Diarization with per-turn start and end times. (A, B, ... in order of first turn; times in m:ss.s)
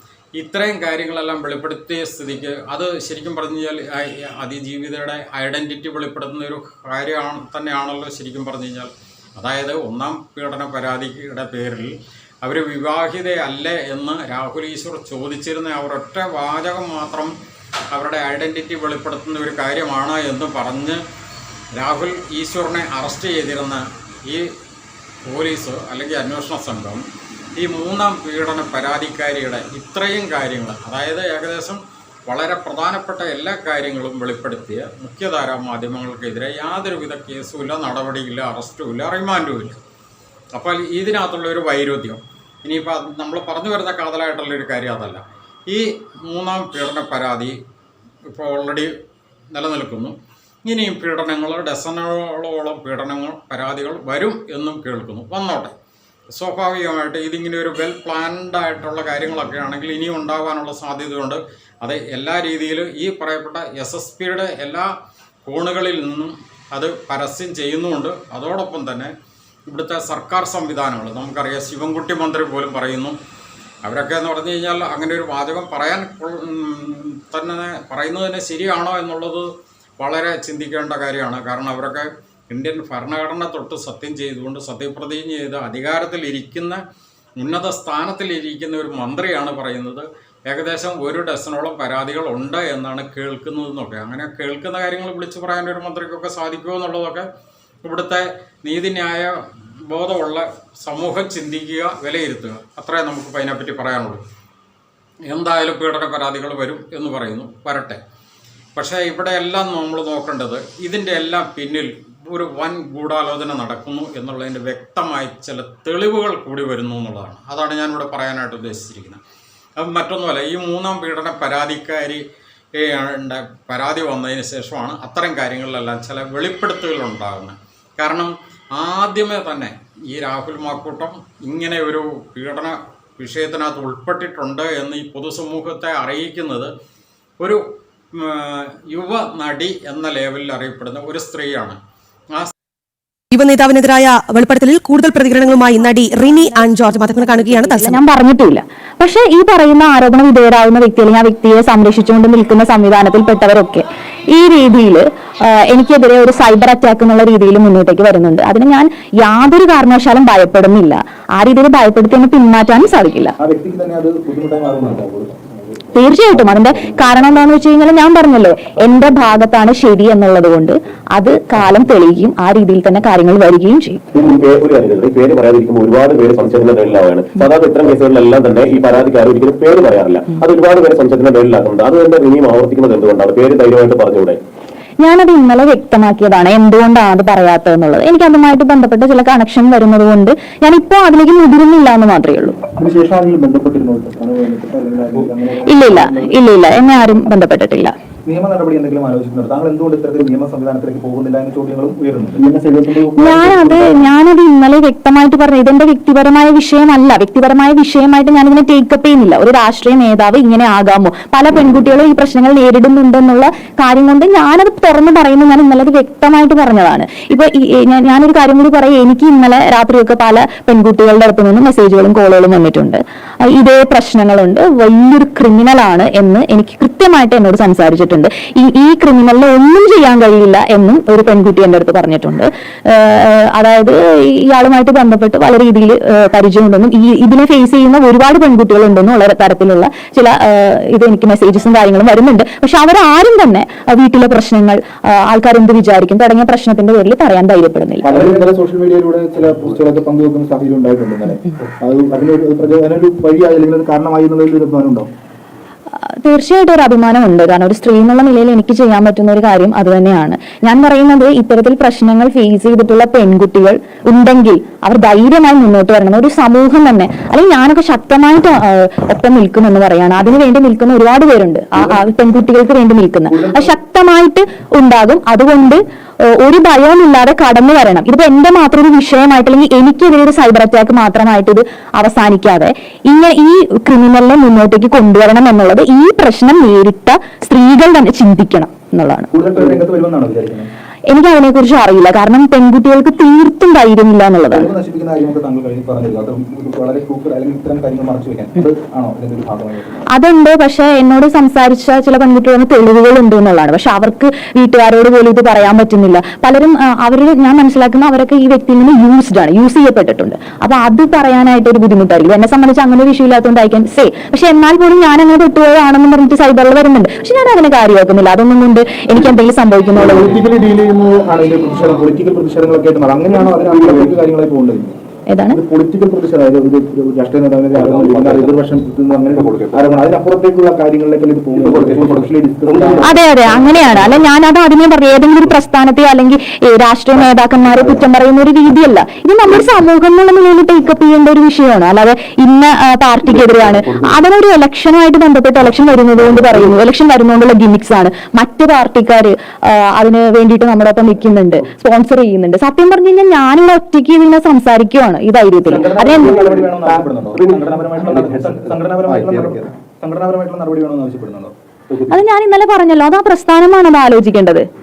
0:00.4-0:17.3 A
0:17.9-0:21.0 A
0:21.8-0:24.5 A
0:25.3-0:27.0 A
0:27.6-0:39.8 A
0:40.5-0:47.6 A
0:48.3-0:48.9 A
0:49.5-0:50.2 A
0:50.7-0:55.7 A
0:56.4-1:04.9 A
1:05.5-1:09.1 A
1:09.7-1:13.2 A
1:13.8-1:26.8 A
1:27.4-1:37.3 A
1:37.8-1:39.4 A
1:39.9-1:44.2 A
1:45.3-1:48.0 A
1:48.8-1:59.2 A
1:59.8-2:02.2 A
2:02.8-2:16.7 A
2:18.1-2:21.8 A
2:23.3-2:28.0 B
2:27.3-2:43.4 C
2:43.4-2:45.8 D
2:45.9-2:54.0 C
2:54.1-3:04.4 E
3:05.0-3:12.6 C
3:12.7-3:16.4 D
3:15.6-3:17.9 C
3:18.3-3:23.9 D
3:23.2-4:08.2 C
4:08.0-4:15.1 D
4:16.2-4:49.3 C
4:31.8-4:32.0 D
4:33.3-4:33.7 D
4:49.3-4:50.7 D
4:51.1-4:54.7 C
4:54.5-5:00.0 D
5:00.1-5:20.4 C
5:20.0-5:25.0 D
5:25.3-5:25.6 C
5:25.5-5:33.3 D
5:27.7-5:28.6 E
5:29.3-5:29.9 E
5:31.6-5:33.2 E
5:33.0-5:56.6 C
5:37.8-5:38.0 D
5:55.6-6:01.5 D
5:56.5-5:59.6 E
6:02.1-6:04.7 C